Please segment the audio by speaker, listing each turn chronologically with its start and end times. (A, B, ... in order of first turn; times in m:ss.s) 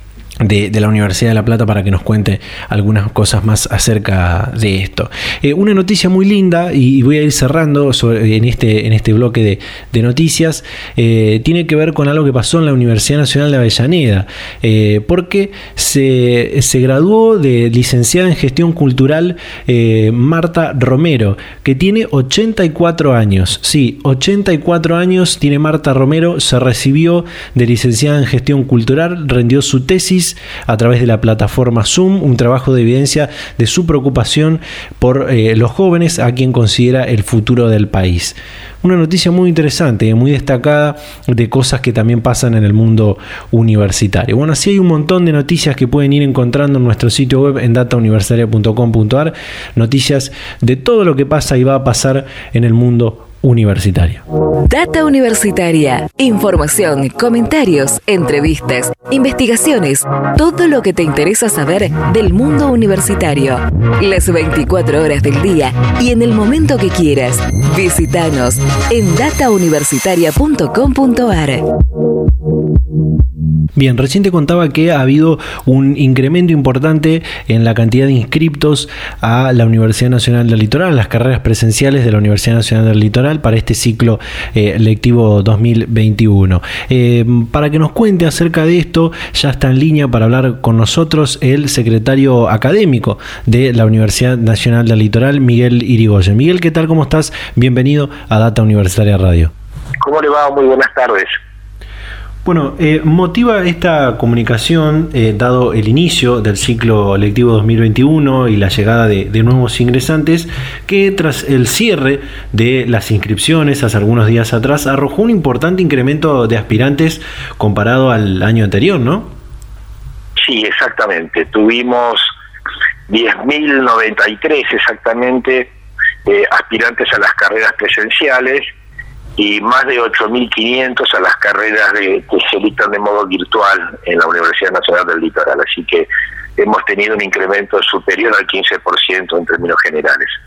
0:00.4-0:54.2 A
0:54.6-1:11.6 B
1:13.8-1:39.5 A
1:40.0-1:41.4 C
1:42.4-1:59.3 A
2:00.4-2:02.3 C
2:03.1-2:05.7 C
2:06.2-2:08.7 C
2:09.4-2:20.3 C